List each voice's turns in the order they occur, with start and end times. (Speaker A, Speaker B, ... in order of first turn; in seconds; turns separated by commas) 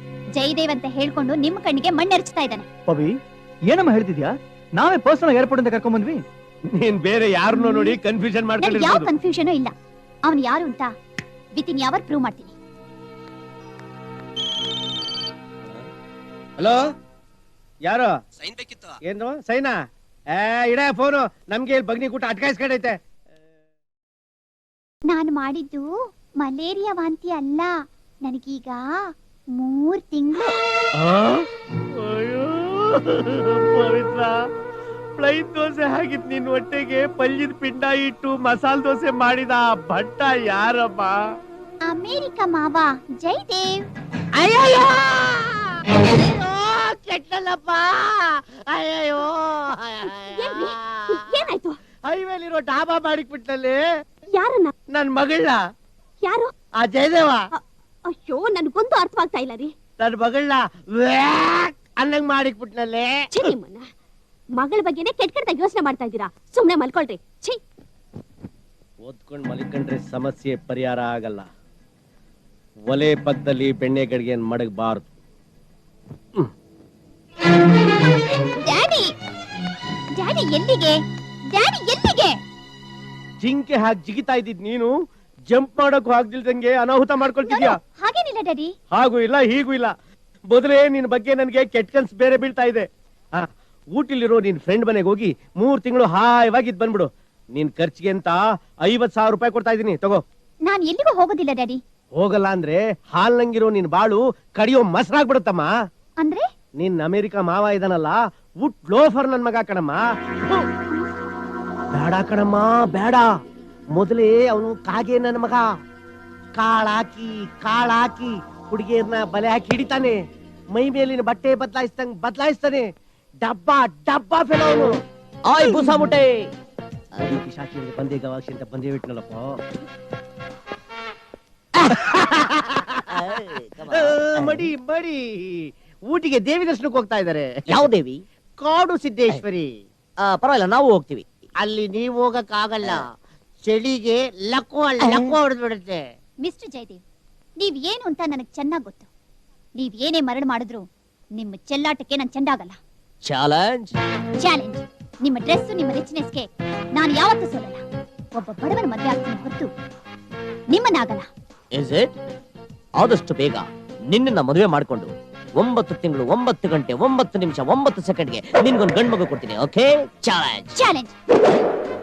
Speaker A: 0.3-2.6, Speaker B: 2.9-3.1, Speaker B: 3.7-6.2, Speaker C: 6.7-9.1, Speaker A: 7.5-8.0, Speaker A: 8.6-9.7, Speaker A: 10.2-10.9, Speaker A: 11.5-12.5, Speaker C: 17.9-18.1, Speaker C: 19.1-19.7, Speaker C: 20.4-23.0, Speaker A: 25.1-30.6, Speaker C: 31.0-34.3, Speaker C: 35.2-41.2, Speaker A: 41.9-43.9, Speaker C: 44.3-51.4, Speaker D: 50.3-51.8, Speaker C: 52.0-53.8, Speaker D: 54.3-54.7, Speaker C: 54.9-55.6, Speaker D: 56.2-56.5, Speaker C: 56.8-57.5, Speaker D: 58.1-59.7, Speaker C: 60.0-63.1, Speaker D: 63.3-63.8, Speaker D: 64.5-67.6, Speaker C: 69.0-71.5, Speaker C: 72.9-75.1, Speaker A: 78.5-79.1, Speaker A: 80.2-81.0, Speaker A: 81.5-82.4, Speaker C: 83.4-84.9, Speaker C: 85.5-87.8, Speaker A: 87.4-88.7, Speaker C: 88.9-89.9, Speaker C: 90.5-100.2, Speaker A: 100.6-101.8, Speaker C: 102.2-105.7, Speaker A: 106.2-106.4, Speaker C: 106.8-110.7, Speaker C: 111.9-113.3, Speaker C: 114.0-115.6, Speaker C: 116.6-120.2, Speaker C: 120.7-122.9, Speaker C: 123.4-124.9, Speaker E: 125.5-126.5, Speaker E: 127.1-127.4, Speaker C: 127.2-129.6, Speaker E: 131.8-132.2, Speaker C: 132.0-133.0, Speaker E: 133.1-134.7, Speaker C: 133.9-137.8, Speaker E: 137.7-138.2, Speaker C: 138.6-139.7, Speaker E: 140.2-141.3, Speaker C: 141.6-143.0, Speaker C: 143.7-146.0, Speaker E: 145.0-145.3, Speaker A: 146.4-147.0, Speaker A: 147.6-149.1, Speaker A: 149.8-152.8, Speaker E: 153.2-153.9, Speaker A: 154.4-157.8, Speaker A: 158.3-159.7, Speaker A: 160.7-161.3, Speaker E: 161.7-162.1, Speaker E: 163.0-170.8, Speaker A: 170.7-171.1